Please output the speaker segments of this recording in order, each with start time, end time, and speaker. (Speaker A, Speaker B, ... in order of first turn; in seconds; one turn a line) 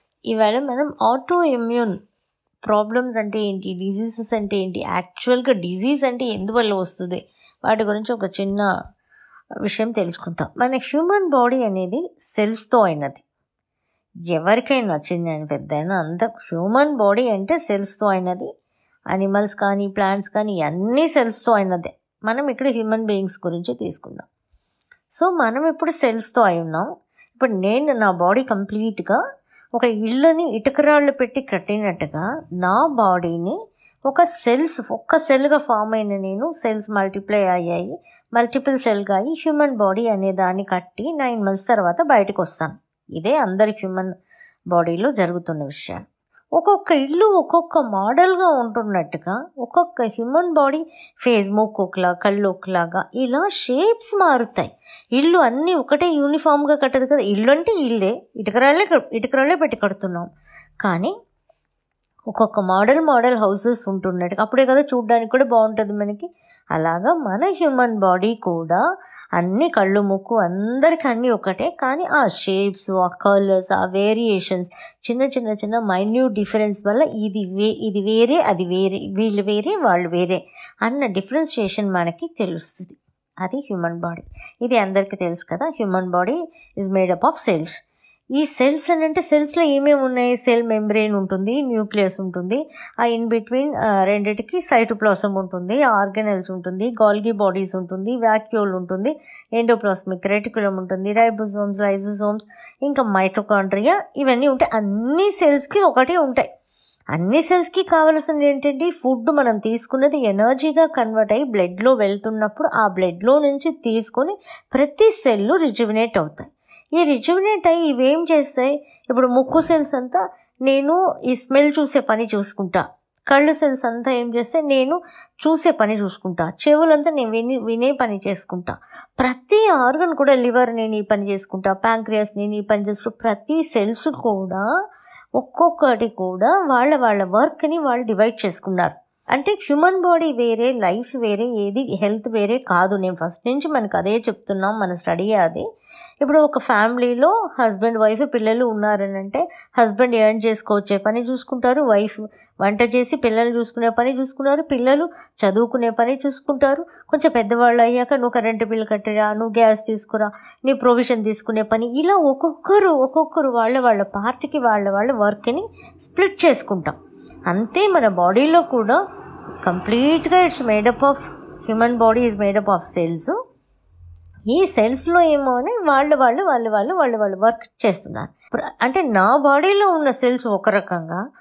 Speaker A: 0.3-2.0
Speaker A: 2.6-8.7
Speaker A: 9.6-13.2
Speaker A: 14.3-18.5
Speaker A: 19.1-24.3
Speaker A: 25.1-29.2
Speaker A: 29.8-33.6
Speaker A: 34.1-44.1
Speaker A: 44.7-46.0
Speaker A: 46.6-60.3
Speaker A: 60.8-61.1
Speaker A: 62.3-68.8
Speaker A: 69.4-87.8
Speaker A: 88.4-106.5
Speaker A: 107.1-134.7
Speaker A: 135.4-145.6
Speaker A: 146.2-167.0
Speaker A: 167.5-169.0
Speaker A: 169.6-173.3
Speaker A: 174.5-181.2